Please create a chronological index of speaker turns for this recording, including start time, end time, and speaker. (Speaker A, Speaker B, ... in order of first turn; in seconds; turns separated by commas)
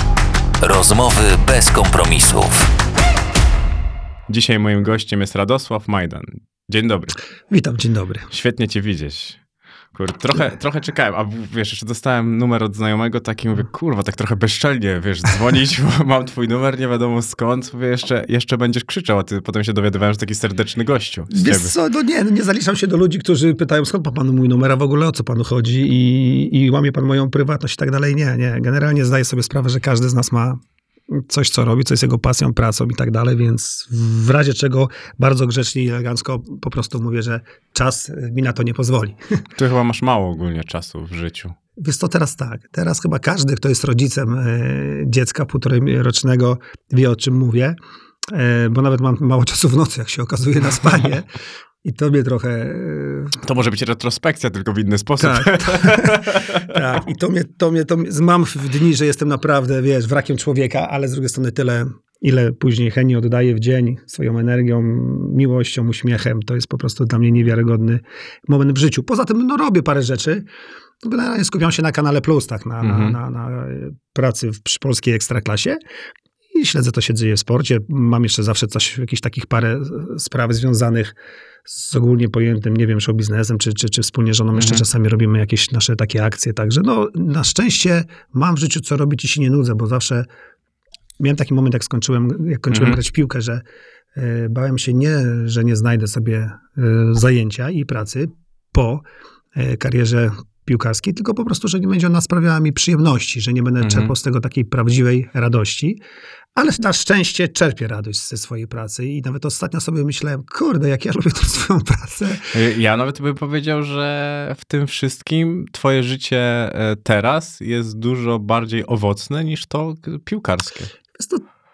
Speaker A: 0.6-2.7, Speaker B: 4.3-7.1, Speaker C: 7.5-8.3, Speaker B: 8.3-9.4, Speaker B: 9.9-21.7, Speaker C: 21.3-30.6, Speaker C: 31.1-39.4, Speaker B: 39.5-41.5, Speaker C: 41.8-47.8, Speaker C: 48.3-51.3, Speaker C: 51.8-53.4, Speaker B: 53.4-56.7, Speaker C: 55.2-70.4, Speaker C: 71.0-75.8, Speaker B: 72.8-73.2, Speaker C: 76.5-81.1, Speaker C: 81.7-90.2, Speaker B: 84.5-84.8, Speaker C: 91.2-93.6, Speaker B: 92.7-93.0, Speaker C: 94.2-106.0, Speaker B: 103.8-104.1, Speaker C: 106.5-112.5, Speaker B: 112.5-120.9, Speaker C: 121.2-121.4